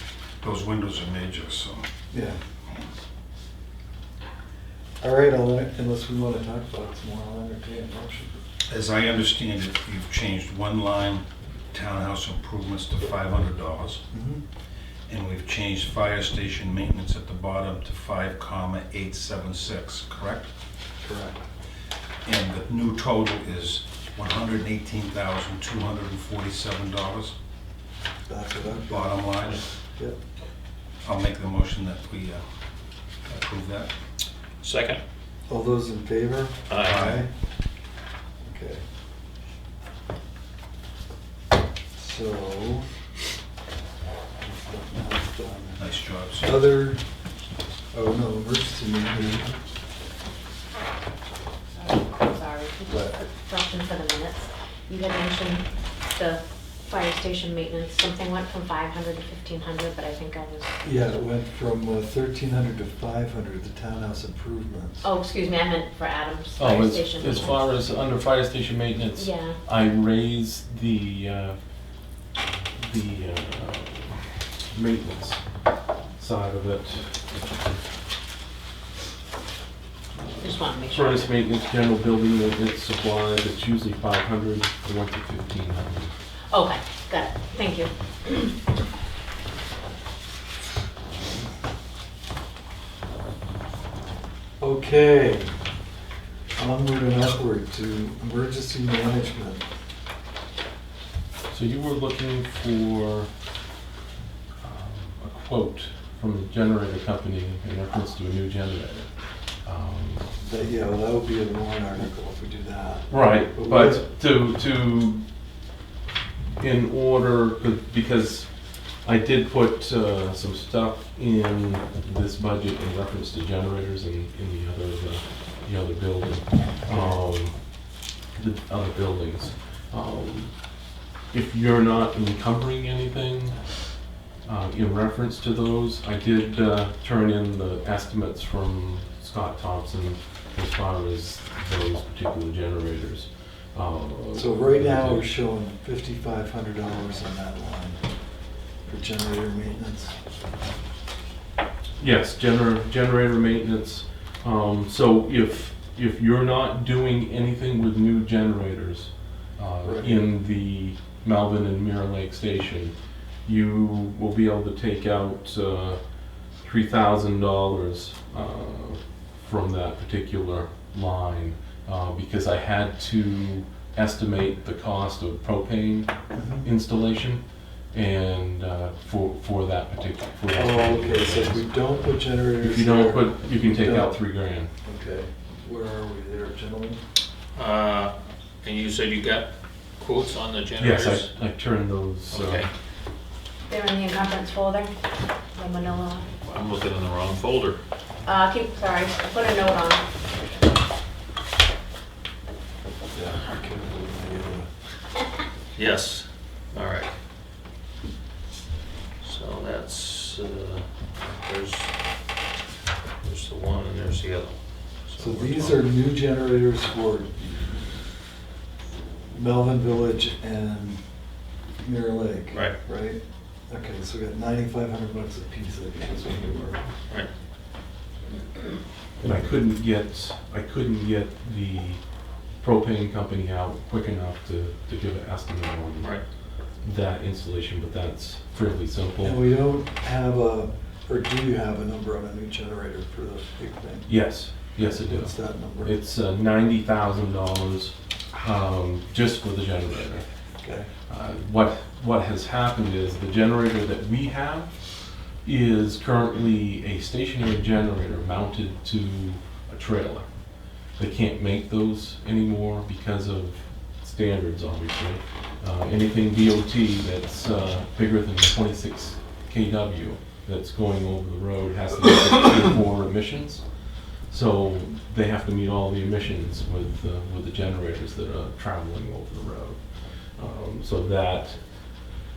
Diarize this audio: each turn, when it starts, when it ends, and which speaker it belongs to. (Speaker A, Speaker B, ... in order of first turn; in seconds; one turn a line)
Speaker A: 0.4-1.8
Speaker B: 2.1-2.4
Speaker B: 5.0-8.4
Speaker A: 8.7-14.0
Speaker B: 14.1-14.4
Speaker A: 15.1-20.5
Speaker B: 21.0-21.4
Speaker A: 22.2-27.3
Speaker B: 28.3-29.2
Speaker A: 28.9-29.6
Speaker A: 31.0-32.4
Speaker A: 33.3-33.9
Speaker C: 34.6-35.0
Speaker B: 35.5-37.3
Speaker C: 36.7-37.1
Speaker A: 36.8-37.2
Speaker B: 38.4-38.8
Speaker B: 42.0-42.8
Speaker B: 44.4-45.8
Speaker A: 45.8-46.5
Speaker B: 46.4-47.0
Speaker B: 47.9-49.5
Speaker D: 51.8-60.7
Speaker B: 60.8-65.1
Speaker D: 65.0-67.6
Speaker E: 66.6-71.6
Speaker D: 69.1-69.5
Speaker E: 72.7-75.4
Speaker E: 76.2-77.2
Speaker E: 80.1-86.1
Speaker D: 80.4-81.3
Speaker D: 86.5-88.5
Speaker B: 94.6-95.5
Speaker B: 96.6-99.6
Speaker E: 101.5-103.3
Speaker E: 104.6-110.3
Speaker B: 110.4-114.1
Speaker E: 113.1-115.2
Speaker E: 116.6-118.5
Speaker E: 119.0-127.5
Speaker B: 126.9-127.2
Speaker E: 128.3-130.5
Speaker E: 131.3-133.6
Speaker E: 134.4-145.3
Speaker B: 144.3-148.0
Speaker B: 148.8-150.1
Speaker E: 152.0-162.9
Speaker B: 159.8-160.2
Speaker E: 163.4-166.0
Speaker E: 166.6-177.4
Speaker B: 176.3-176.7
Speaker E: 177.9-181.7
Speaker B: 180.5-184.2
Speaker E: 182.6-184.7
Speaker B: 184.8-187.0
Speaker C: 187.5-188.1
Speaker C: 188.6-191.3
Speaker E: 190.8-192.7
Speaker C: 192.3-192.7
Speaker D: 193.7-194.9
Speaker D: 195.5-196.4
Speaker C: 196.5-197.8
Speaker D: 198.2-200.1
Speaker B: 203.1-204.7
Speaker C: 205.8-207.1
Speaker C: 209.2-211.9
Speaker C: 213.2-215.9
Speaker B: 215.2-217.8
Speaker B: 219.3-221.0
Speaker B: 221.8-226.8
Speaker C: 222.5-222.8
Speaker E: 229.2-232.0
Speaker E: 232.6-236.1
Speaker E: 236.8-239.4
Speaker B: 239.2-244.2
Speaker E: 244.1-250.2
Speaker B: 244.7-245.9
Speaker B: 250.6-250.9
Speaker E: 251.1-254.8
Speaker E: 255.4-260.2
Speaker E: 261.0-282.0